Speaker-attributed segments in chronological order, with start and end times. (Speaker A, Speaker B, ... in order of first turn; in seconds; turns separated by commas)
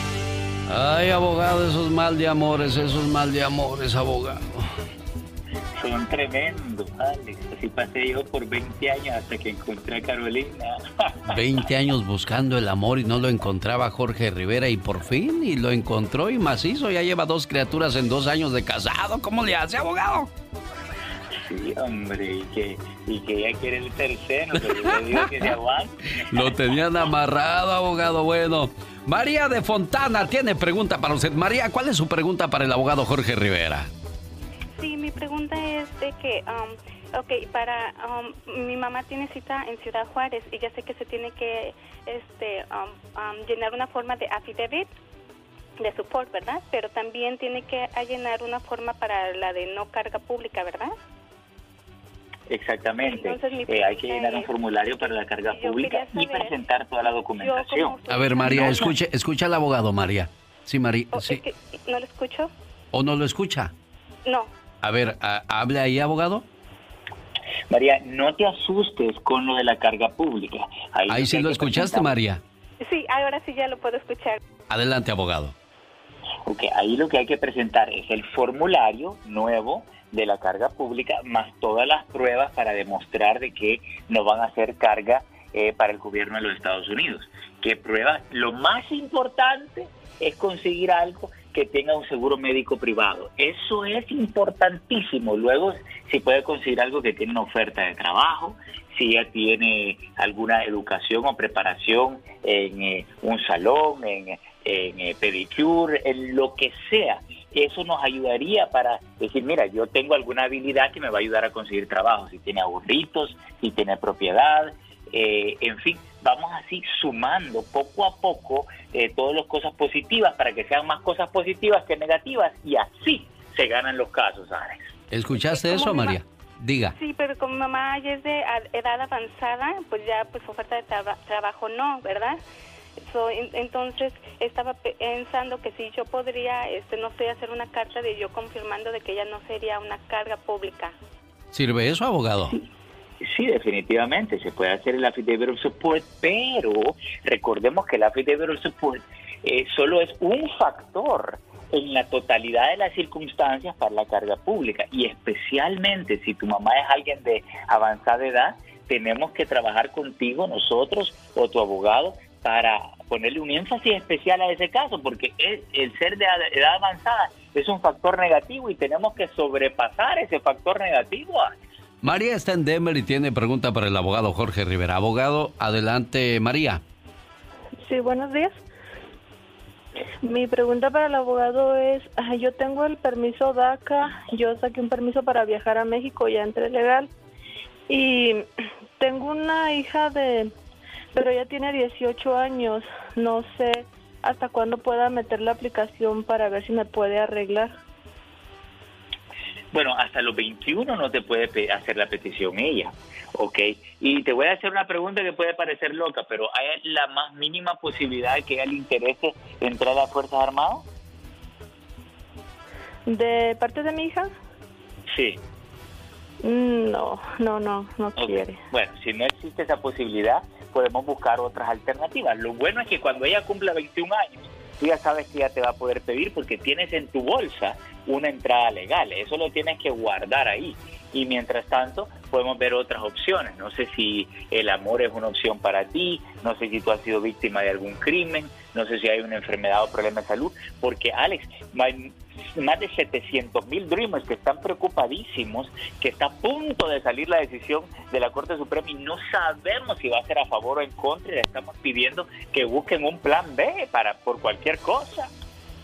Speaker A: 0.7-4.7, Speaker B: 5.8-10.8, Speaker A: 11.3-20.3, Speaker B: 21.5-26.0, Speaker A: 24.7-25.2, Speaker A: 26.3-33.9, Speaker C: 34.8-44.9, Speaker C: 45.8-50.9, Speaker B: 52.5-58.0, Speaker C: 53.0-54.5, Speaker C: 55.0-56.5, Speaker C: 57.4-59.0, Speaker A: 58.1-61.4, Speaker C: 61.1-62.5, Speaker A: 62.9-63.7, Speaker C: 64.3-64.5, Speaker A: 64.8-66.5, Speaker B: 67.7-72.1, Speaker A: 71.1-72.4, Speaker C: 72.8-74.4, Speaker A: 74.7-75.5, Speaker B: 76.5-124.9, Speaker A: 125.1-127.0, Speaker C: 125.3-126.2, Speaker C: 127.0-132.4, Speaker C: 133.0-141.0, Speaker A: 141.5-142.6, Speaker B: 143.2-171.6, Speaker A: 172.0-176.8, Speaker D: 177.8-178.6, Speaker D: 180.2-187.1, Speaker D: 187.9-190.5, Speaker D: 191.1-197.7, Speaker B: 199.7-210.9, Speaker D: 213.1-214.3, Speaker B: 215.1-215.4, Speaker D: 216.4-218.6, Speaker B: 218.2-255.3